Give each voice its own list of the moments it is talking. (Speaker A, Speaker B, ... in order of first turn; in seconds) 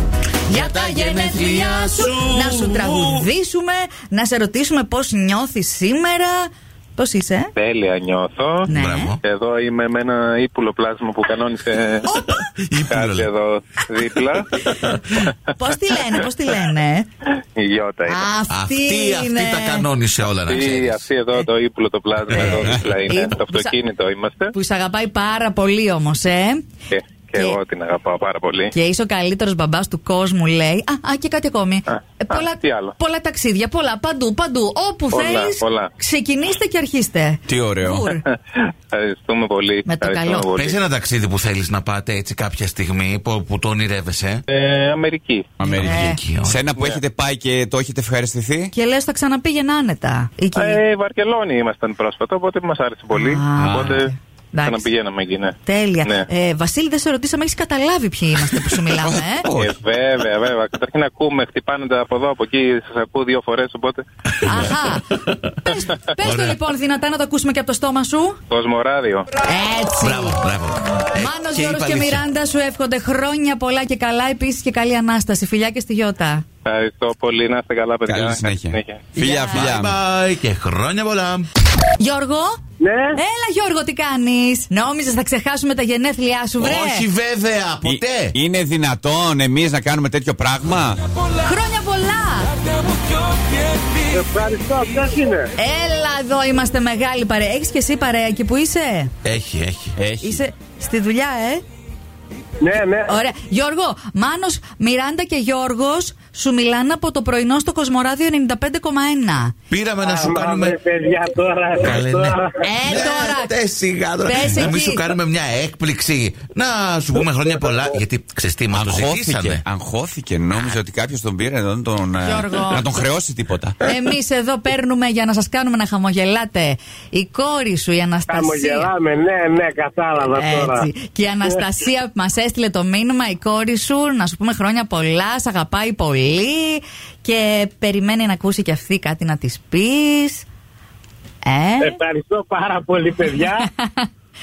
Speaker A: 0.5-7.5, 8.7-9.2, 12.1-12.4, 15.5-17.1, 18.1-19.9, 23.1-23.8, 24.5-26.6, 28.7-38.2, 39.9-40.5, 45.7-46.2, 48.7-50.8, 53.1-54.9, 55.6-59.5, 64.4-65.1, 65.7-68.4, 69.5-70.4, 71.2-76.5, 79.2-79.6, 82.0-82.6, 83.2-87.0, 91.4-92.5, 95.6-99.1, 100.2-101.6, 103.1-109.5, 112.6-113.5, 114.2-115.0, 122.2-122.9, 123.8-128.9, 130.3-140.5, 141.4-142.0, 143.6-144.1
Speaker B: 0.5-3.3, 8.7-9.2, 12.2-13.3, 18.5-21.1, 40.5-44.4, 45.8-46.6, 64.3-66.6, 70.0-72.3, 79.5-81.5, 86.6-88.4, 99.2-100.0, 109.7-110.8, 111.8-119.6
Speaker C: 7.6-8.7, 9.2-12.1, 12.9-14.6, 17.6-18.3, 20.5-24.5, 26.9-28.7, 31.9-33.0, 35.1-35.9, 38.6-40.8, 44.5-45.6, 50.5-54.1, 54.6-56.3, 59.5-64.0, 68.5-69.3, 76.7-79.1
Speaker D: 22.4-22.7, 37.5-38.0, 45.6-48.7, 53.6-54.0, 59.0-59.8, 78.1-80.0, 87.8-91.0, 100.0-100.4, 118.7-123.8
Speaker E: 82.8-83.2, 94.1-95.5, 102.6-103.1, 110.0-112.6, 128.3-130.9, 141.8-143.7